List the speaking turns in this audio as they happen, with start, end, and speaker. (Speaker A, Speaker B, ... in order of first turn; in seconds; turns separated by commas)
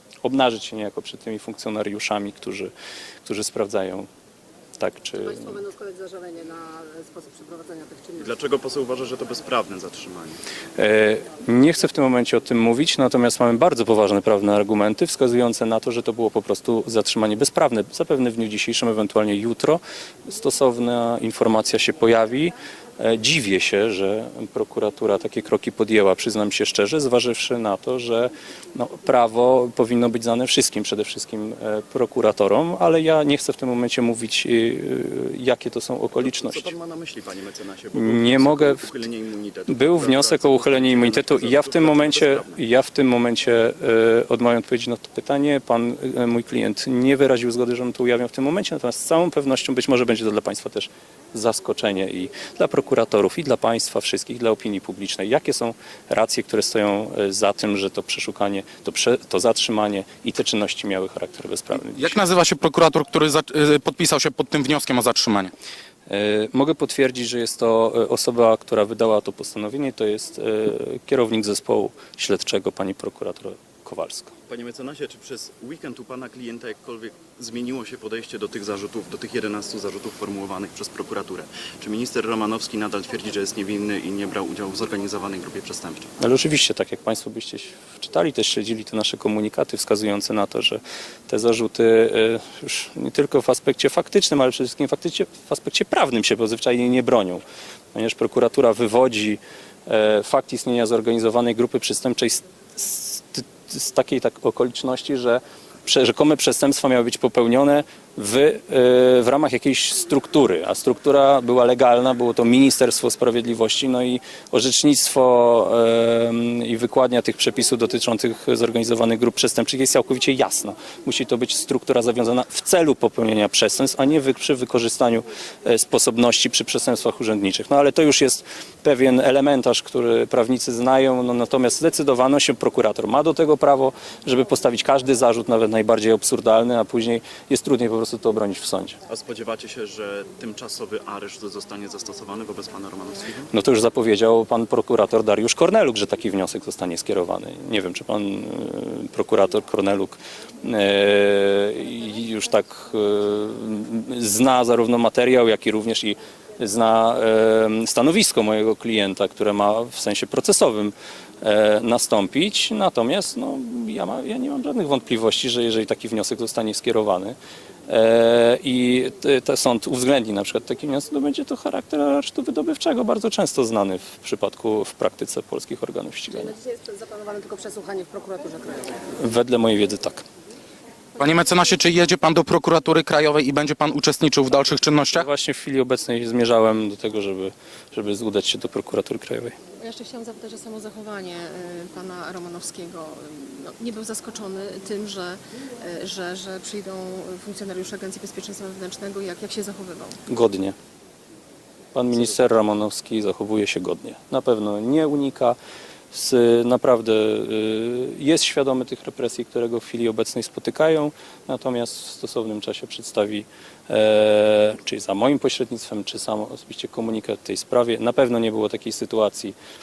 Speaker A: 0.2-2.7, Speaker A: 3.2-4.1, Speaker A: 4.8-5.7, Speaker B: 5.2-8.2, Speaker C: 8.2-10.4, Speaker A: 10.8-36.7, Speaker C: 36.2-42.6, Speaker A: 37.9-38.9, Speaker A: 39.7-62.2, Speaker D: 61.7-65.5, Speaker A: 66.1-74.3, Speaker C: 74.5-86.1, Speaker A: 86.2-97.4, Speaker A: 97.9-139.0, Speaker C: 139.1-143.5, Speaker A: 143.5-167.3, Speaker A: 167.9-176.5, Speaker B: 176.3-179.0, Speaker A: 179.1-180.2, Speaker D: 181.2-185.3, Speaker A: 185.1-189.5, Speaker E: 189.8-200.2, Speaker A: 200.3-200.7, Speaker A: 201.9-205.6, Speaker A: 206.1-219.6